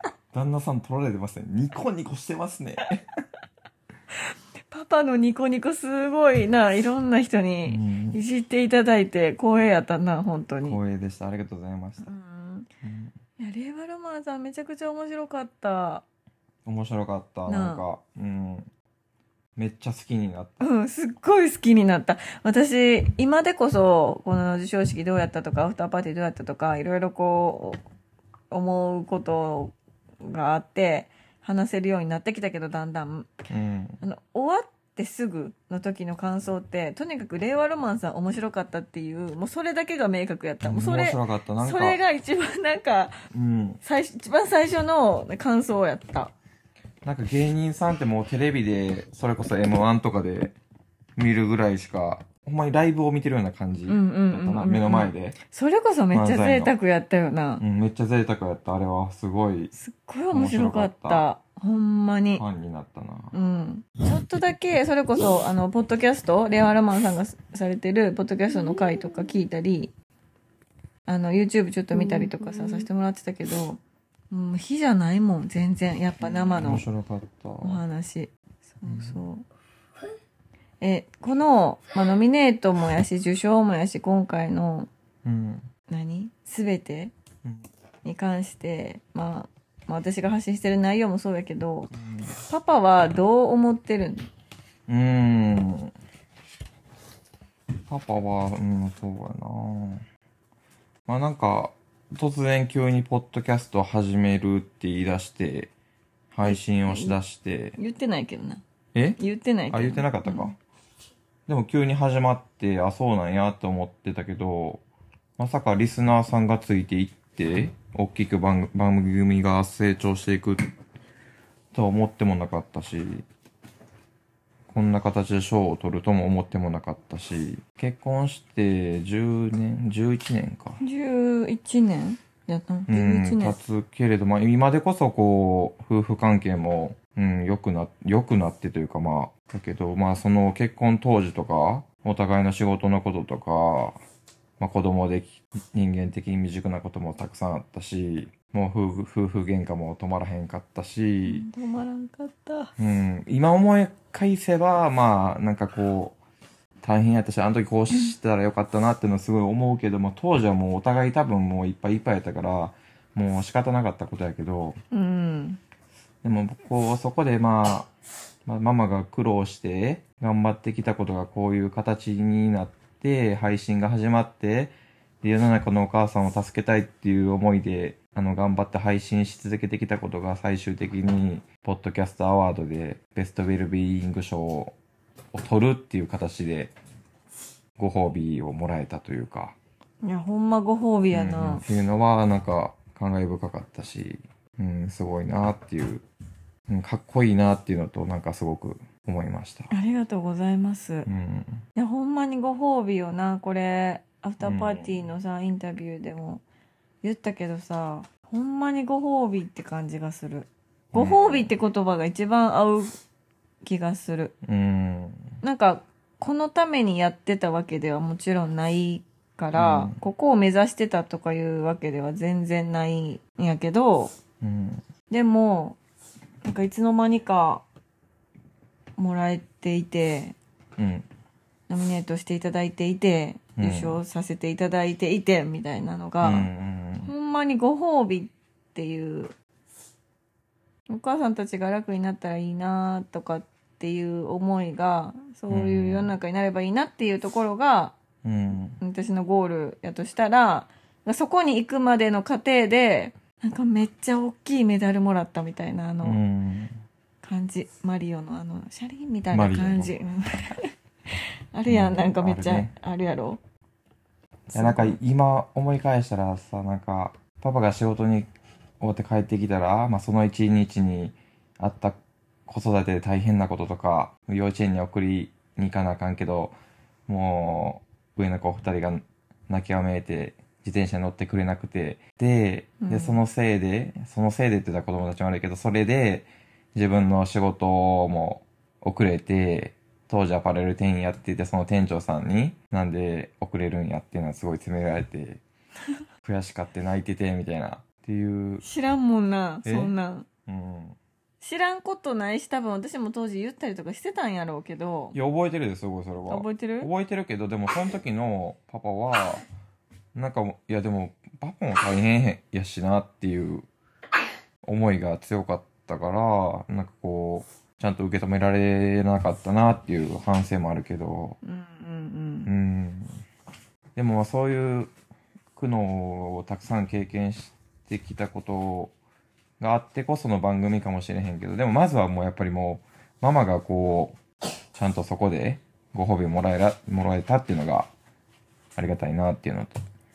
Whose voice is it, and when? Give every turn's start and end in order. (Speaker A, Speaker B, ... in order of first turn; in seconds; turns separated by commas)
Speaker A: 0.3-3.0, Speaker B: 4.7-10.8, Speaker A: 7.7-8.2, Speaker A: 10.7-12.1, Speaker B: 12.0-12.7, Speaker A: 12.8-13.1, Speaker B: 13.4-16.1, Speaker A: 16.6-18.7, Speaker B: 17.5-17.8, Speaker A: 19.6-20.6, Speaker B: 20.6-27.8, Speaker B: 28.5-33.3, Speaker A: 33.5-34.0, Speaker B: 34.0-43.1, Speaker A: 40.6-42.0, Speaker A: 43.3-43.8, Speaker B: 43.8-46.3, Speaker A: 47.0-50.5, Speaker A: 51.2-55.4, Speaker B: 53.9-57.6, Speaker A: 56.1-56.7, Speaker A: 57.6-59.7, Speaker B: 59.7-62.4, Speaker A: 60.3-61.2, Speaker A: 62.4-63.3, Speaker B: 63.3-69.9, Speaker B: 71.1-73.8, Speaker B: 74.3-76.8, Speaker A: 76.6-77.8, Speaker B: 77.6-79.5, Speaker A: 78.9-79.2, Speaker B: 80.8-84.9, Speaker A: 85.2-85.7, Speaker B: 85.9-87.1, Speaker B: 88.0-94.3, Speaker A: 91.9-92.3, Speaker A: 94.9-95.9, Speaker A: 97.9-100.0, Speaker A: 101.1-105.7, Speaker A: 106.3-107.8, Speaker B: 106.5-107.2, Speaker B: 107.8-108.6, Speaker A: 108.9-109.2, Speaker B: 109.2-110.5, Speaker A: 109.7-110.6, Speaker A: 111.5-114.8, Speaker A: 115.4-120.7, Speaker A: 121.7-123.2, Speaker A: 124.7-130.8, Speaker B: 130.8-133.6, Speaker A: 132.9-144.0, Speaker A: 144.6-151.5, Speaker B: 151.2-152.7, Speaker A: 152.8-156.2, Speaker A: 156.8-164.8, Speaker B: 164.9-165.6, Speaker A: 166.2-167.9, Speaker A: 168.5-184.8, Speaker A: 185.3-186.7, Speaker A: 187.8-189.6, Speaker B: 190.0-191.6, Speaker A: 191.1-196.1, Speaker A: 196.7-199.7, Speaker B: 199.7-201.1, Speaker A: 201.1-201.6, Speaker B: 201.8-206.4, Speaker A: 204.4-205.0, Speaker B: 207.0-212.9, Speaker A: 210.9-211.5, Speaker B: 213.6-214.3, Speaker A: 214.4-215.4, Speaker B: 215.4-224.1, Speaker A: 219.5-220.0, Speaker A: 224.4-224.8, Speaker B: 225.1-225.8, Speaker B: 226.4-227.7, Speaker B: 229.0-230.4, Speaker A: 230.8-231.1, Speaker B: 231.7-236.5, Speaker A: 233.6-234.0, Speaker A: 236.2-237.1, Speaker B: 237.0-239.3, Speaker B: 240.9-248.0, Speaker A: 245.5-246.1, Speaker A: 248.2-248.8, Speaker B: 248.8-256.2, Speaker A: 256.0-256.8, Speaker B: 257.2-260.7, Speaker A: 259.3-259.9, Speaker B: 261.5-263.4, Speaker A: 261.7-262.7, Speaker A: 264.5-268.3, Speaker B: 264.5-265.0, Speaker A: 268.8-276.6, Speaker A: 277.1-295.4, Speaker B: 282.8-283.2, Speaker A: 296.2-298.6, Speaker B: 298.6-300.3, Speaker A: 299.6-299.9, Speaker A: 300.5-301.0, Speaker B: 301.4-305.2, Speaker A: 305.1-309.4, Speaker B: 306.3-306.9, Speaker A: 310.1-313.7, Speaker A: 314.6-321.4, Speaker B: 321.4-322.5, Speaker A: 322.5-323.2, Speaker A: 324.0-324.9, Speaker A: 325.6-328.9, Speaker A: 329.6-334.2, Speaker A: 334.7-337.9, Speaker A: 338.8-339.8